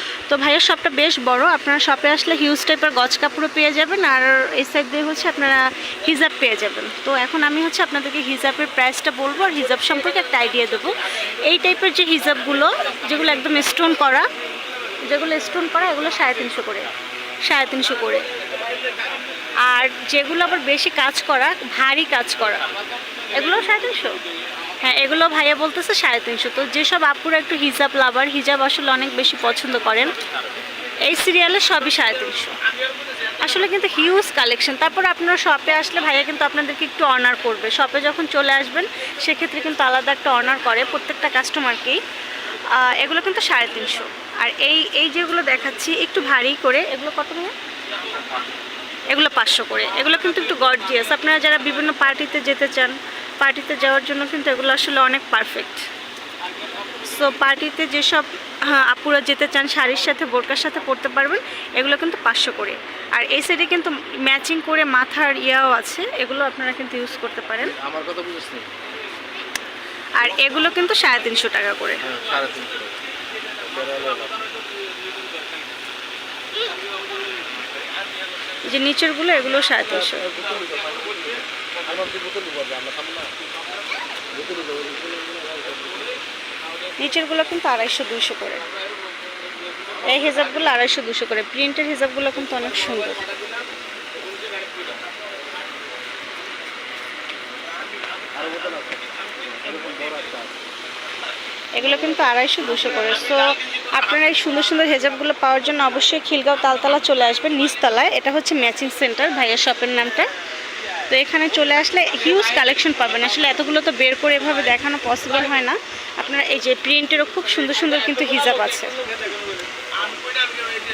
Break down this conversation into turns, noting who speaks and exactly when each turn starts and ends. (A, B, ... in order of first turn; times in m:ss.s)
0:00.3-0:11.0 A
0:11.5-0:14.3 A
0:15.0-0:16.9 A
0:17.4-0:18.2 A
0:19.6-0:22.7 A
0:23.3-0:24.2 A
0:24.8-0:30.2 A
0:31.0-0:32.6 A
0:33.4-0:42.0 A
0:42.8-0:47.5 A
0:49.1-0:55.9 A
0:57.0-1:07.8 A
1:07.6-1:08.7 B
1:10.2-1:12.0 A
1:12.0-1:13.0 B
1:13.6-1:14.4 B
1:18.6-1:20.3 A
1:20.0-1:23.3 B
1:24.3-1:26.2 B
1:27.0-1:28.6 A
1:30.0-1:33.2 A
1:38.4-1:39.0 B
1:39.6-1:40.6 B
1:41.8-1:50.3 A
1:41.8-1:42.2 B
1:51.1-1:59.0 A